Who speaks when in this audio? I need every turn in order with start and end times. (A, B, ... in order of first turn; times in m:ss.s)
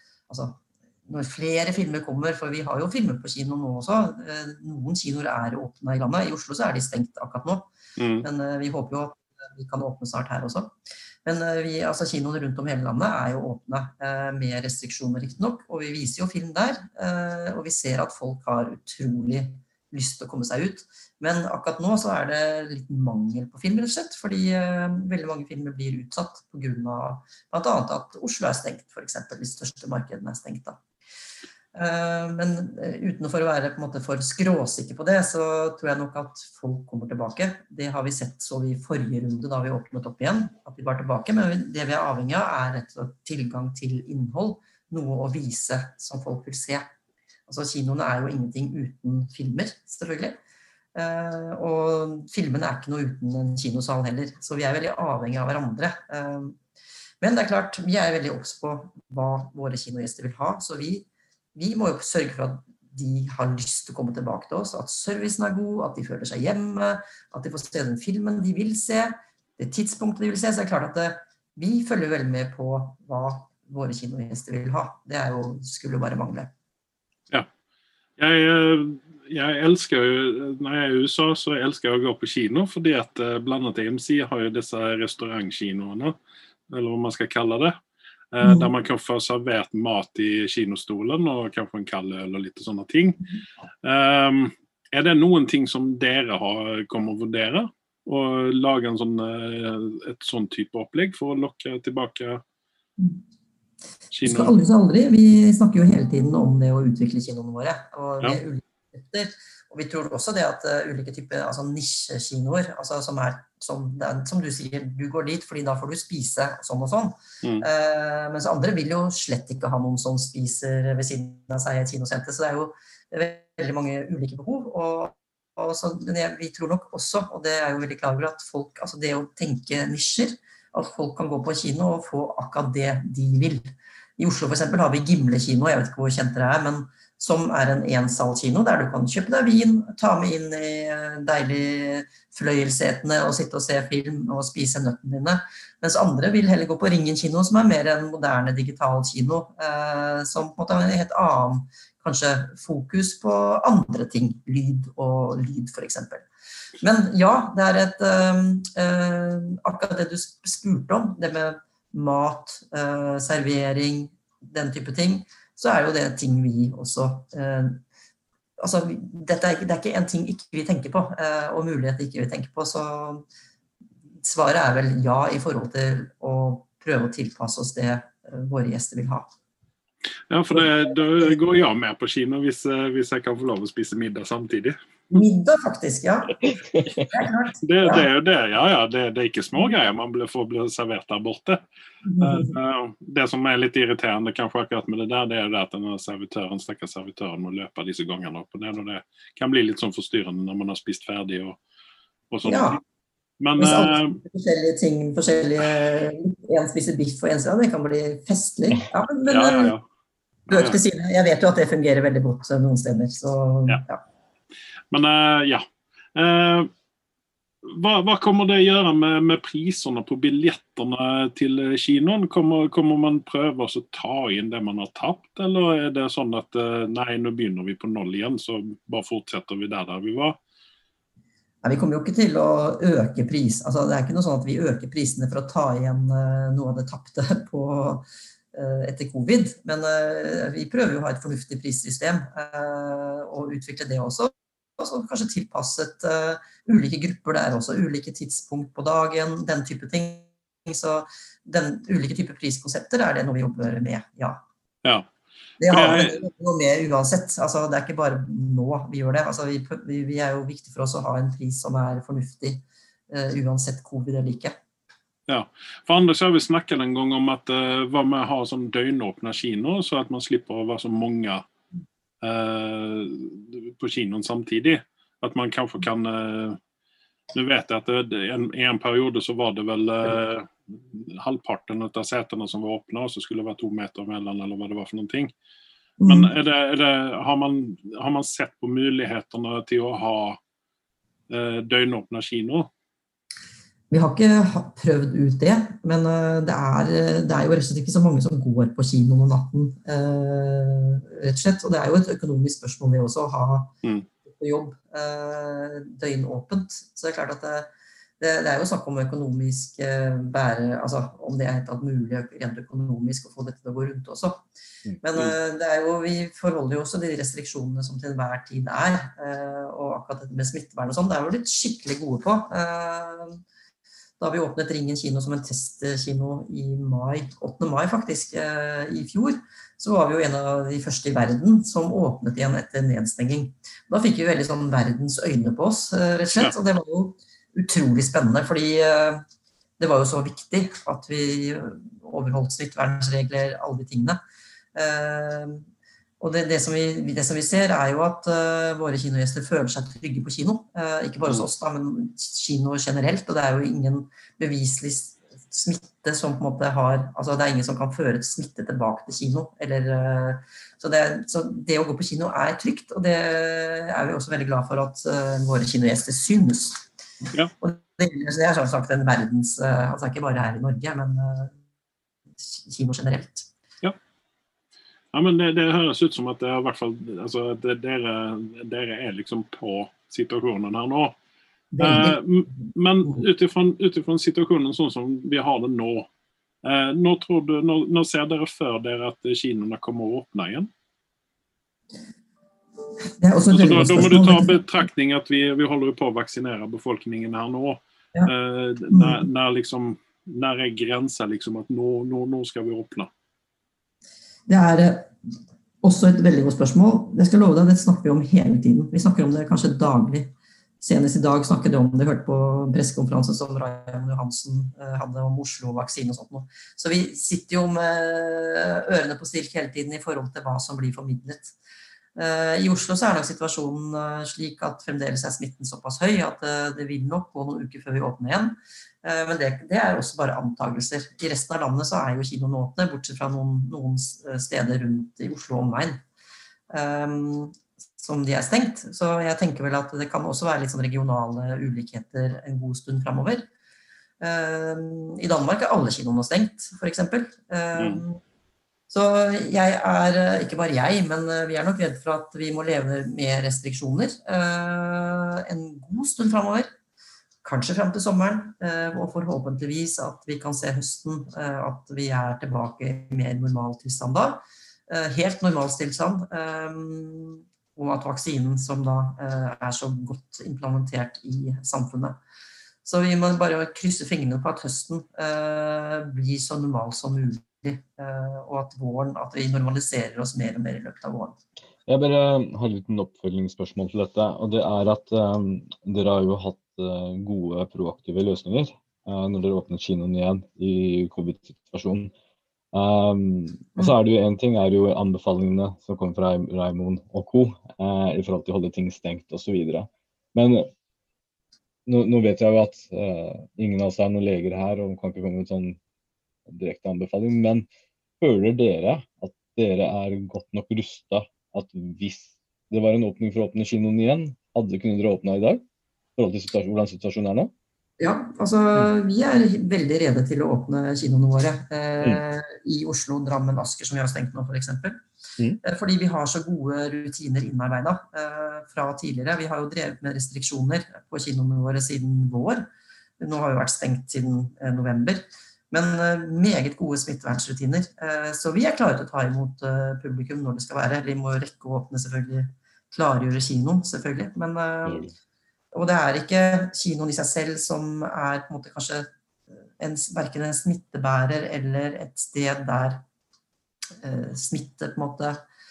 0:00.3-0:07.7 A
0:08.0-0:08.2 B
0:08.2-0:10.7 A
0:11.2-0:30.8 A
0:31.7-0:46.8 A
0:47.5-0:50.4 A
0:50.9-0:56.6 A
0:57.2-1:16.5 A
1:18.2-1:26.2 B
1:26.7-1:27.7 B
1:28.3-1:33.2 B
1:28.4-1:28.7 A
1:33.8-1:42.4 B
1:44.1-1:44.5 B
1:44.2-2:13.6 A
2:14.2-2:36.3 A
2:36.8-2:47.8 A
2:48.6-2:53.2 A
2:54.2-2:59.2 A
3:00.3-3:04.8 B
3:05.1-3:06.5 A
3:06.4-3:07.1 C
3:07.1-3:08.1 A
3:07.6-3:11.6 B
3:12.0-3:12.5 A
3:12.2-3:21.6 B
3:22.3-3:22.8 B
3:22.4-3:22.8 A
3:23.4-3:24.2 B
3:23.6-3:29.7 A
3:29.2-3:29.8 B
3:30.5-3:30.8 B
3:30.5-3:34.0 A
3:34.9-3:35.6 B
3:36.1-3:36.7 B
3:37.6-3:50.4 B
3:51.6-4:14.4 A
4:15.6-4:24.5 A
4:15.7-4:16.2 B
4:25.3-4:31.4 B
4:32.2-4:36.6 B
4:37.3-4:45.3 B
4:46.0-4:46.3 A
4:46.1-4:50.4 B
4:51.3-4:52.7 B
4:53.9-5:03.7 A
5:04.2-5:07.7 A
5:08.2-5:14.4 A
5:15.0-5:23.4 A
5:24.2-5:39.2 A
5:39.8-5:44.2 A
5:44.7-5:45.6 A
5:46.2-6:06.8 A
6:07.6-6:11.5 A
6:12.4-6:13.5 A
6:15.1-6:21.1 B
6:21.7-6:22.2 A
6:21.8-6:26.1 B
6:26.6-6:30.7 B
6:33.2-6:34.6 A
6:33.5-6:43.1 B
6:38.9-6:39.2 A
6:44.5-6:45.1 A
6:45.8-7:01.6 A
7:02.1-7:16.0 A
7:16.7-7:23.5 A
7:24.2-7:28.2 A
7:27.7-7:28.0 B
7:28.9-7:36.7 A
7:37.4-7:52.2 A
7:52.8-8:01.4 A
8:01.9-8:12.1 C
8:12.7-8:20.7 C
8:21.9-8:25.8 C
8:26.5-8:27.7 C
8:28.2-8:35.6 C
8:36.2-8:37.5 C
8:38.0-8:45.0 A
8:45.6-8:52.7 A
8:53.2-9:05.1 A
9:04.8-9:05.1 C
9:05.7-9:09.1 A
9:09.8-9:13.0 A
9:14.0-9:15.4 A